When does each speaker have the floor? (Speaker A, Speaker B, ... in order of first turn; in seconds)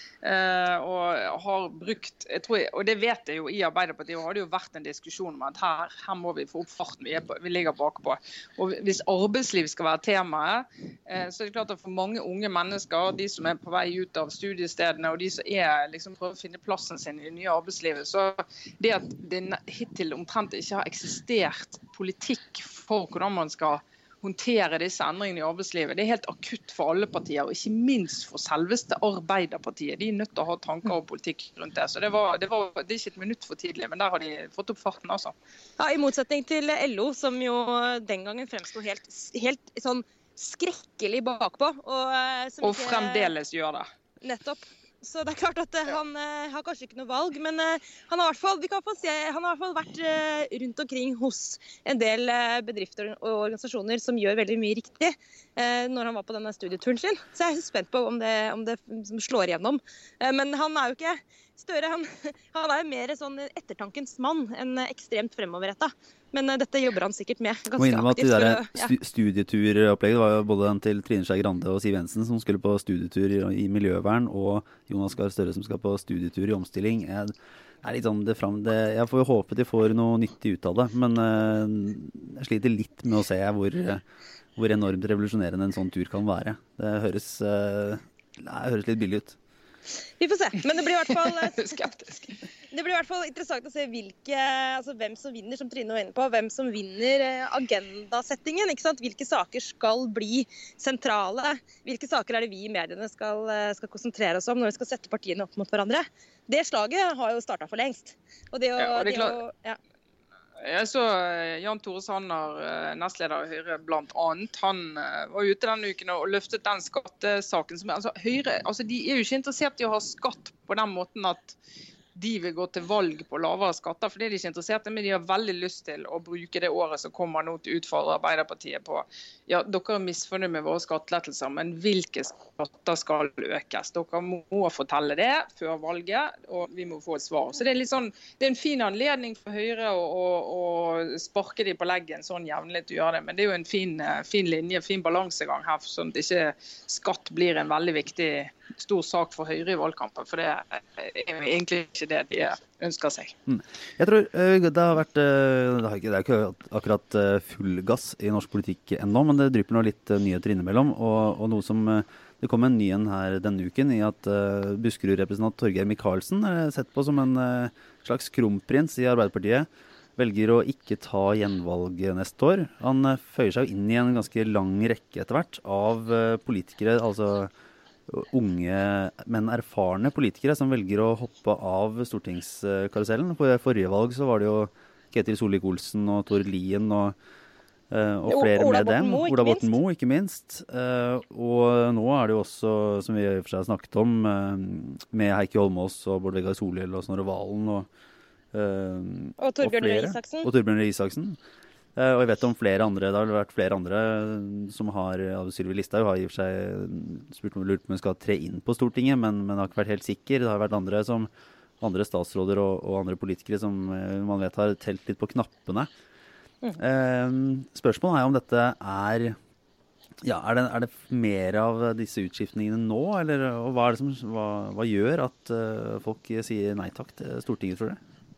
Speaker A: 0.2-35.3, 42.6-43.9, 91.1-92.4, 108.8-109.4, 110.6-121.6, 122.1-153.3
Speaker B: 35.8-43.3, 44.2-68.9, 90.2-91.8, 92.7-109.8, 188.3-189.7, 199.4-200.5
Speaker C: 67.8-84.0, 84.5-89.4, 153.5-177.5, 178.1-187.1, 187.9-197.9, 198.5-201.4, 201.9-211.3, 211.8-215.9, 216.8-219.3, 220.2-228.0